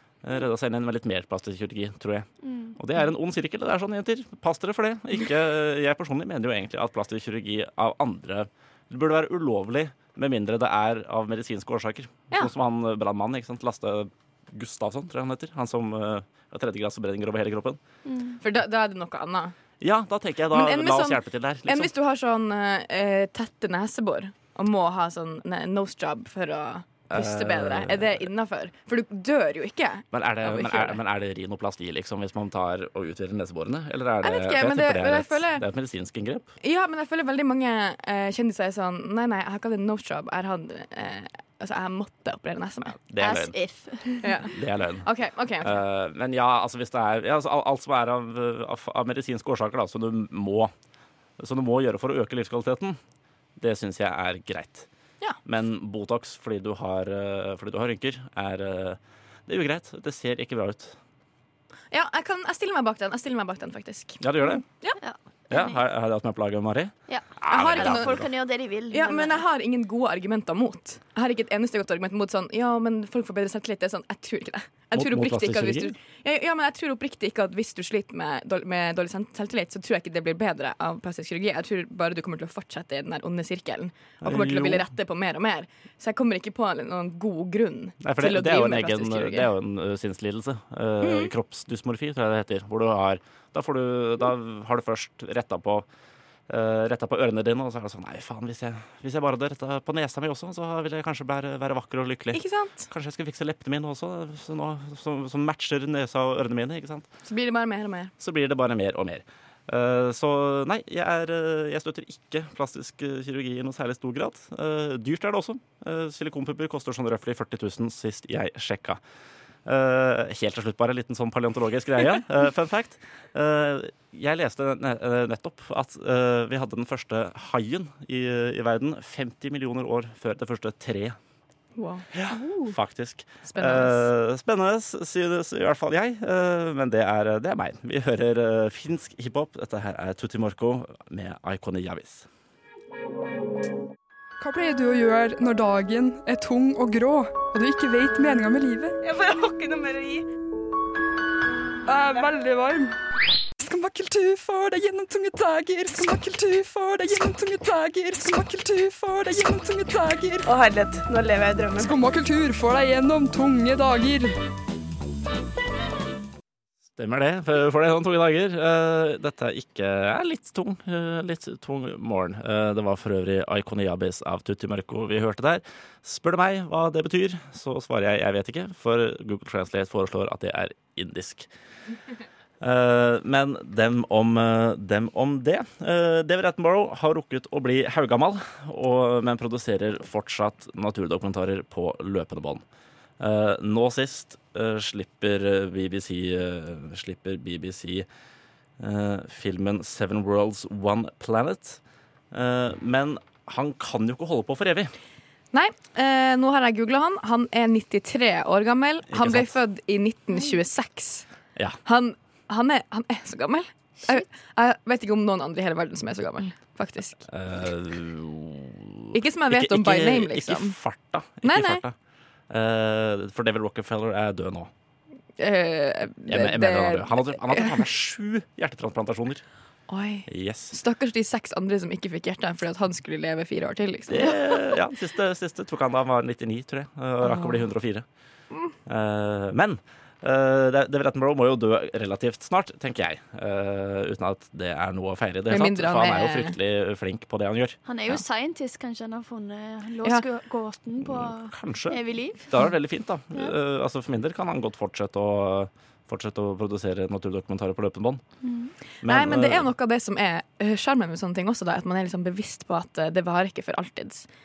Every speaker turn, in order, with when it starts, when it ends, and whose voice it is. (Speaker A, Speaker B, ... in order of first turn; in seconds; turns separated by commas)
Speaker A: 0.2-17.8, Speaker B: 2.4-2.8, Speaker B: 18.1-18.4, Speaker C: 18.4-19.6, Speaker A: 19.8-21.9, Speaker C: 20.5-31.0, Speaker A: 27.1-28.3, Speaker A: 30.1-36.5, Speaker C: 34.2-35.7, Speaker C: 36.6-43.0, Speaker A: 42.9-43.6, Speaker B: 43.2-44.3, Speaker C: 44.2-44.5, Speaker A: 44.5-45.1, Speaker C: 45.0-45.8, Speaker A: 45.6-50.7, Speaker A: 51.4-53.0, Speaker A: 53.6-54.9, Speaker A: 55.4-61.0, Speaker C: 61.9-64.2, Speaker A: 64.2-64.7, Speaker B: 65.0-65.8, Speaker A: 65.5-68.3, Speaker B: 67.1-69.4, Speaker C: 67.5-68.2, Speaker C: 68.9-89.5, Speaker A: 74.9-75.9, Speaker A: 84.2-84.8, Speaker A: 88.0-95.9, Speaker A: 96.5-107.1, Speaker C: 102.3-102.9, Speaker C: 107.2-108.1, Speaker A: 108.2-119.0, Speaker A: 119.7-131.2, Speaker C: 131.8-132.1, Speaker A: 132.1-142.3, Speaker C: 133.5-134.1, Speaker D: 144.4-149.0, Speaker C: 149.0-150.2, Speaker D: 151.9-152.9, Speaker D: 153.6-160.6, Speaker C: 160.5-161.9, Speaker D: 161.7-164.3, Speaker A: 167.0-181.5, Speaker A: 182.6-192.6, Speaker A: 193.2-198.1, Speaker A: 198.8-204.9, Speaker C: 205.5-211.3, Speaker A: 209.1-209.5, Speaker C: 211.8-217.2, Speaker A: 217.3-221.9, Speaker C: 219.1-220.8, Speaker C: 221.4-221.8, Speaker A: 222.5-224.7, Speaker C: 225.4-227.8, Speaker A: 226.3-229.4, Speaker C: 229.9-234.4, Speaker A: 230.3-230.7, Speaker A: 234.1-238.1, Speaker C: 237.2-237.7, Speaker A: 238.8-247.8, Speaker C: 245.5-246.6, Speaker B: 247.9-252.6, Speaker A: 251.0-258.2, Speaker B: 258.4-258.7, Speaker A: 259.0-259.7, Speaker C: 259.1-264.3